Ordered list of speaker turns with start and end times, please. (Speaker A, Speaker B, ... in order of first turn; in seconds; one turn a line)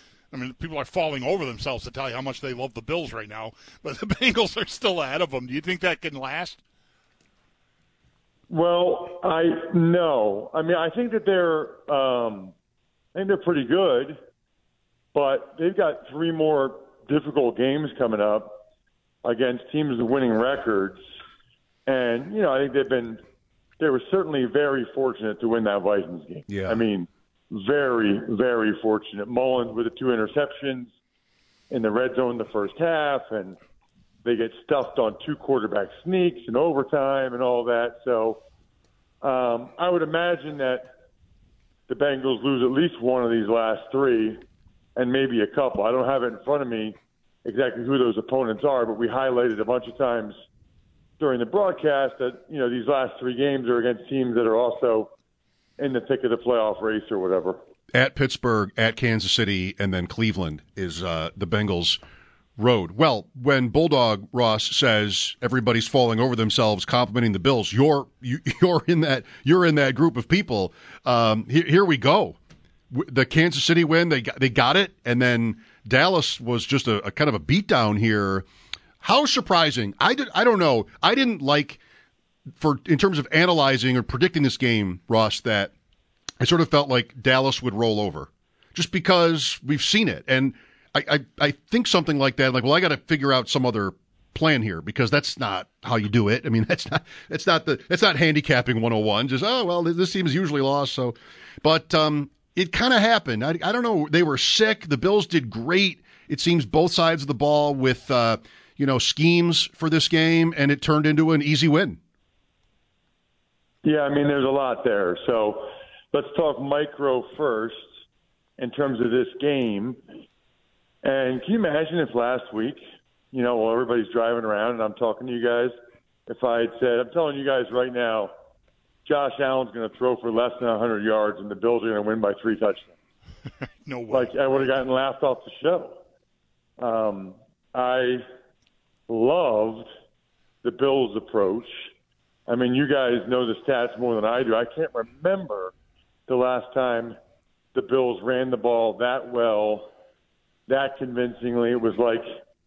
Speaker A: 0.3-6.6
Speaker B: 8.5-12.5
Speaker B: 13.1-14.2
Speaker B: 15.1-18.6
Speaker B: 19.2-21.0
Speaker B: 21.9-23.2
Speaker B: 23.8-30.9
Speaker C: 26.5-26.8
Speaker B: 31.7-33.5
Speaker B: 34.2-38.4
Speaker B: 39.2-40.9
Speaker B: 41.9-44.4
Speaker B: 45.0-50.4
Speaker B: 51.2-55.1
Speaker B: 55.8-57.6
Speaker C: 57.9-62.0
Speaker C: 62.6-72.4
Speaker C: 72.9-78.5
Speaker C: 79.0-81.8
Speaker C: 82.6-85.7
Speaker C: 86.4-112.0
Speaker B: 113.8-117.8
Speaker B: 118.6-120.0
Speaker B: 121.0-122.8
Speaker B: 123.3-125.7
Speaker B: 126.3-128.3
Speaker B: 129.0-132.9
Speaker A: 133.8-134.3
Speaker B: 134.1-136.0
Speaker B: 136.8-138.2
Speaker B: 139.1-139.9
Speaker B: 140.6-141.8
Speaker B: 142.5-145.7
Speaker B: 146.3-147.2
Speaker B: 147.7-149.9
Speaker B: 150.7-152.2